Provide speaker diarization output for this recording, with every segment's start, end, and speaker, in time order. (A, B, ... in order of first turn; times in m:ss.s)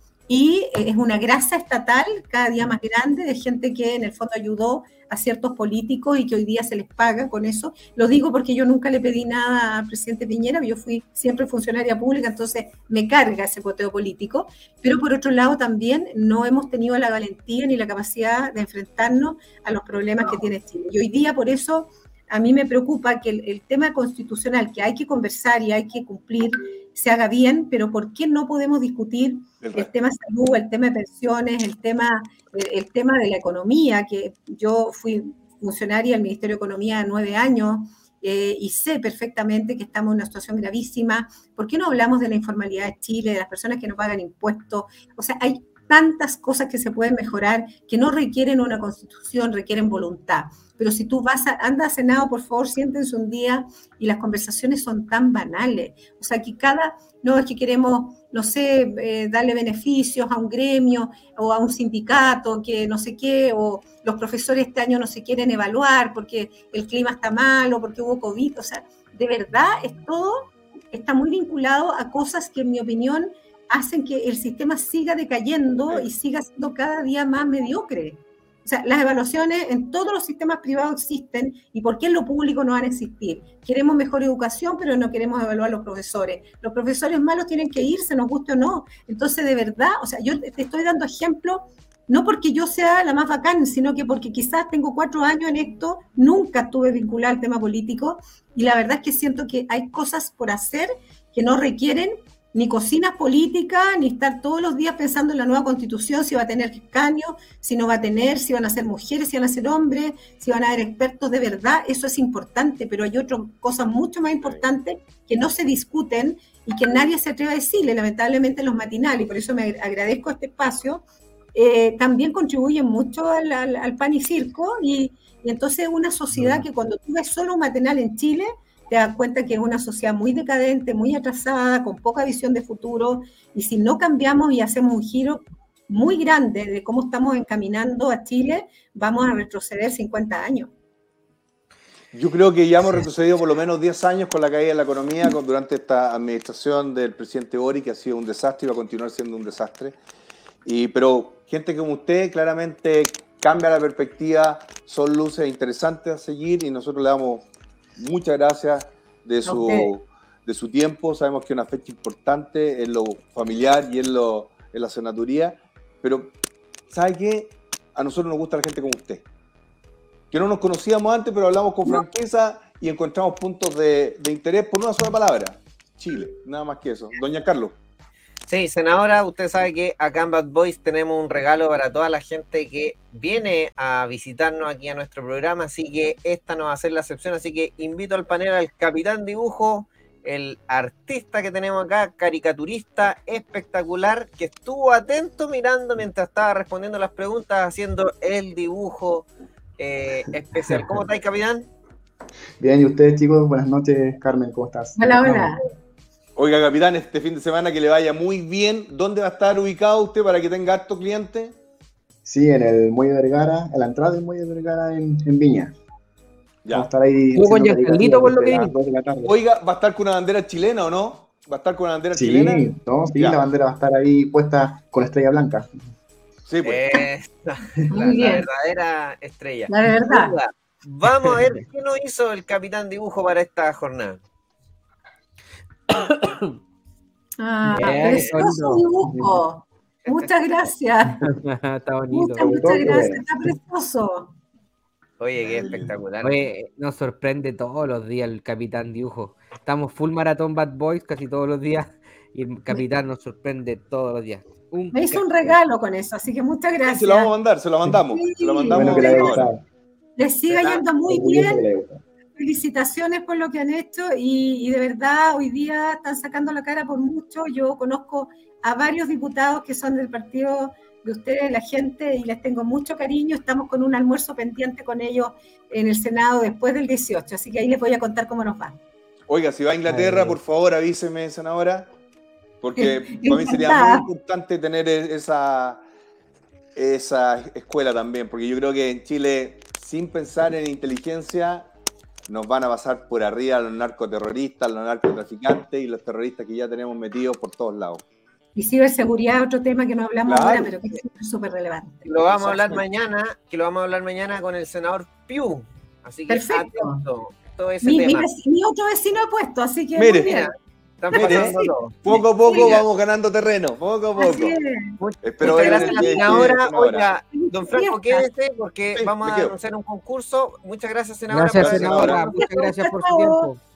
0:00.3-2:01.0 A
0:29.6-0:29.9 B
2:01.6-2:20.7 A
2:22.1-2:30.0 B
2:30.6-2:46.3 B
2:39.5-2:39.9 A
2:46.9-2:49.2 B
2:50.3-2:57.8 B
2:58.5-3:21.7 C
3:22.6-3:25.1 D
3:25.0-3:25.6 A
3:25.2-3:25.5 E
3:26.4-3:31.6 B
3:32.2-3:35.8 D
3:36.7-3:39.4 D
3:37.4-3:38.8 E
3:39.2-3:43.4 B
3:42.1-3:45.7 D
3:46.5-3:47.0 B
3:46.6-3:54.2 C
3:47.9-3:48.5 A
3:49.7-3:50.4 A
3:55.9-3:56.5 E
3:57.4-4:01.2 A
3:57.7-3:59.3 E
3:57.9-3:58.2 C
4:01.2-4:03.0 E
4:02.1-4:04.4 A
4:02.4-4:03.3 D
4:05.2-4:06.5 C
4:05.4-4:05.9 B
4:06.2-4:15.6 E
4:14.9-4:17.3 A
4:16.8-4:19.5 B
4:18.1-4:19.5 A
4:18.7-4:19.6 D
4:20.2-4:21.7 A
4:21.0-4:22.0 D
4:22.4-4:38.8 A
4:39.3-4:41.9 B
4:42.6-4:45.8 B
4:42.8-4:44.1 A
4:46.8-4:51.7 B
4:52.3-4:58.0 B
4:58.6-5:02.1 A
5:00.3-5:00.9 B
5:02.0-5:08.3 C
5:02.3-5:02.8 B
5:06.3-5:07.0 A
5:07.8-5:10.5 A
5:10.0-5:10.3 B
5:10.3-5:12.9 C
5:11.1-5:14.6 B
5:11.1-5:11.6 A
5:12.4-5:12.7 A
5:14.2-5:16.6 A
5:15.0-5:22.7 C
5:15.2-5:17.1 B
5:17.3-5:18.3 A
5:19.0-5:19.6 B
5:21.3-5:23.6 E
5:21.6-5:22.3 B
5:22.4-5:23.5 A